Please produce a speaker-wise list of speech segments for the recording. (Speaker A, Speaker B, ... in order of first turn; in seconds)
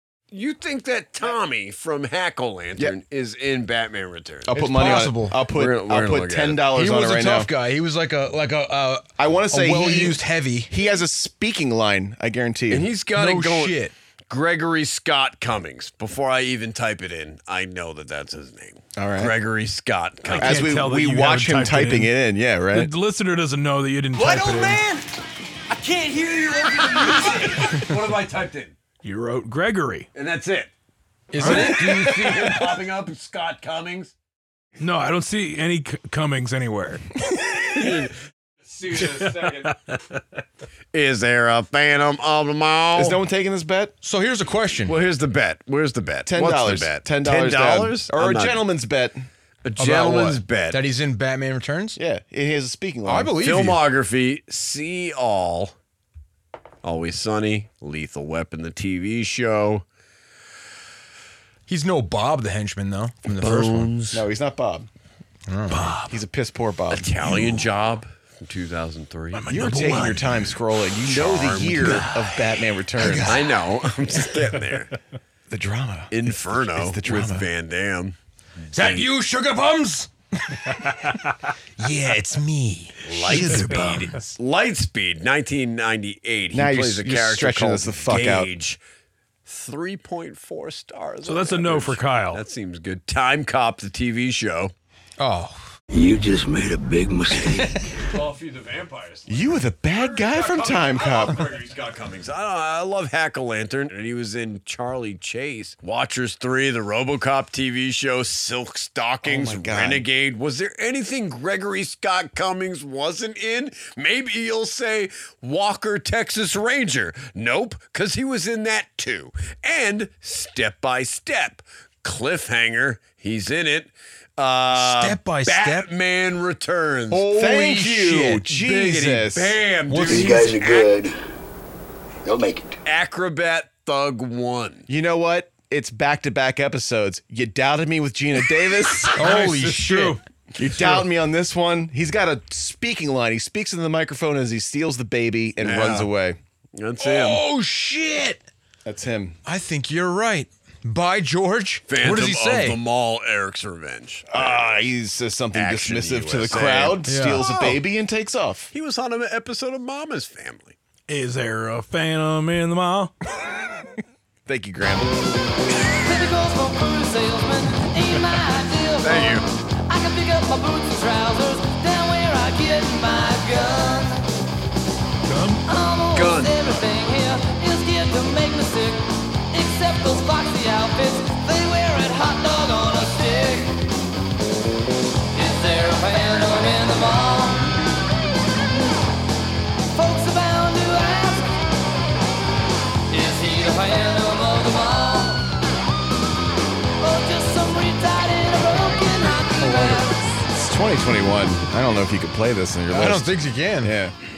Speaker A: 0.3-4.5, 5.5-6.6, 12.7-20.7, 27.6-28.7, 30.1-30.7, 31.4-34.1, 37.8-38.1, 38.7-39.7, 40.9-43.2, 44.9-48.6, 49.6-50.8, 53.4-55.7, 56.8-59.8, 63.3-64.2, 66.9-69.5, 71.0-72.1, 73.3-74.9, 76.1-78.1, 78.7-79.1, 83.0-88.8, 89.5-94.7, 98.0-127.3, 129.0-130.9, 132.8-134.8, 145.6-146.1, 146.8-147.4, 151.9-154.9, 155.5-157.8, 158.7-160.8, 169.0-169.5, 176.1-176.7
Speaker B: 4.5-7.5, 9.2-10.2, 10.7-12.9, 19.0-19.3, 20.4-22.9, 42.9-43.9, 46.3-49.2, 52.0-53.3, 64.1-64.9, 66.0-67.1, 69.5-73.4, 75.5-77.5, 86.5-88.5, 99.3-101.5, 109.2-110.0, 127.3-129.6, 134.9-139.1, 140.6-146.4, 148.8-149.3, 154.3-158.7, 164.5-165.1, 200.5-203.3, 203.8-204.1
Speaker C: 4.5-5.4, 6.7-10.7, 13.1-13.9, 31.3-32.5, 44.0-44.9, 49.8-52.0, 53.0-53.8, 61.7-64.0, 65.5-66.0, 73.0-73.3, 78.7-80.1, 81.8-84.3, 95.2-95.6, 97.3-97.7, 124.7-125.9, 127.1-129.0, 129.9-130.5, 139.1-140.2, 147.0-148.4, 149.4-152.8, 157.1-157.5, 198.8-200.1, 202.9-204.0
Speaker D: 20.3-22.1, 22.7-24.8, 29.0-30.1, 31.4-31.9, 34.8-37.0, 39.2-39.9, 69.3-70.6, 91.2-92.4, 139.2-140.2, 161.1-163.1, 175.3-175.6
Speaker E: 24.1-25.0, 25.8-27.8
Speaker F: 95.9-97.7, 130.1-131.1, 132.2-132.8
Speaker G: 166.0-174.2, 175.7-183.7, 185.3-187.6, 189.9-191.4, 193.1-195.4, 197.0-200.2